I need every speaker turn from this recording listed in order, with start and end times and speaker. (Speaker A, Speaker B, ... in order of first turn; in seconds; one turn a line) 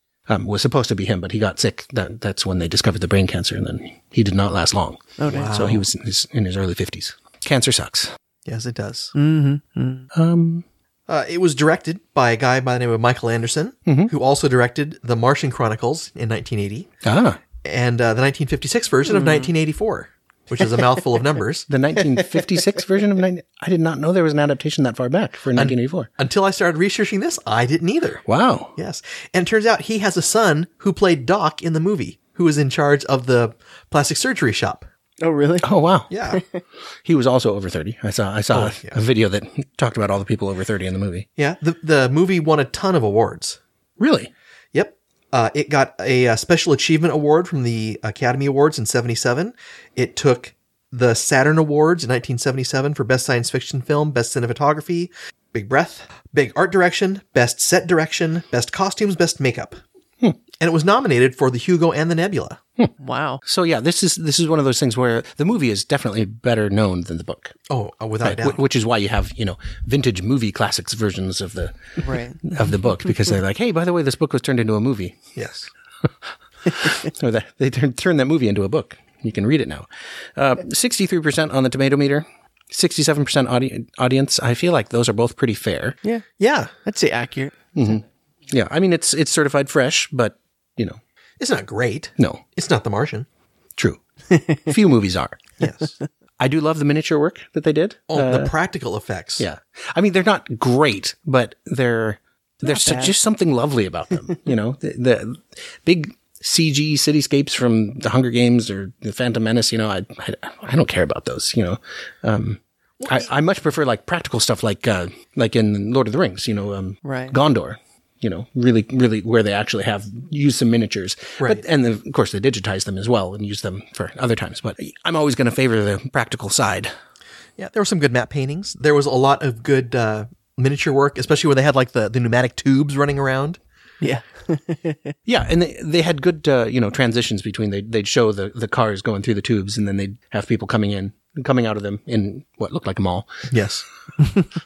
Speaker A: 0.3-8.1
Speaker B: 5.2-5.5
Speaker C: 5.3-5.8
Speaker C: 8.4-9.1
Speaker B: 9.1-10.1
Speaker A: 10.1-10.6
Speaker C: 11.1-16.9
Speaker A: 13.9-14.1
Speaker A: 17.0-17.4
Speaker C: 17.6-21.6
Speaker B: 19.1-19.5
Speaker A: 21.7-26.1
Speaker B: 22.1-22.4
Speaker C: 25.6-28.2
Speaker A: 28.3-28.7
Speaker C: 28.8-34.9
Speaker B: 35.2-35.7
Speaker A: 35.6-36.1
Speaker C: 36.1-36.4
Speaker B: 36.3-36.6
Speaker A: 37.0-41.3
Speaker C: 38.5-39.0
Speaker C: 41.4-43.6
Speaker A: 44.0-44.3
Speaker C: 44.7-59.8
Speaker C: 60.6-62.6
Speaker B: 63.0-63.4
Speaker A: 63.4-67.6
Speaker C: 67.7-68.6
Speaker A: 68.2-75.3
Speaker B: 72.0-72.4
Speaker C: 75.3-75.7
Speaker A: 76.7-86.0
Speaker C: 86.4-86.7
Speaker B: 86.8-87.5
Speaker A: 87.7-91.0
Speaker C: 91.4-93.3
Speaker B: 94.3-94.6
Speaker A: 94.6-95.4
Speaker C: 95.6-95.9
Speaker A: 96.4-98.5
Speaker C: 98.1-99.5
Speaker A: 99.4-126.9
Speaker B: 102.6-103.1
Speaker C: 113.0-113.3
Speaker B: 117.0-117.3
Speaker C: 127.6-133.6
Speaker B: 134.0-135.1
Speaker A: 135.2-143.5
Speaker C: 143.5-143.8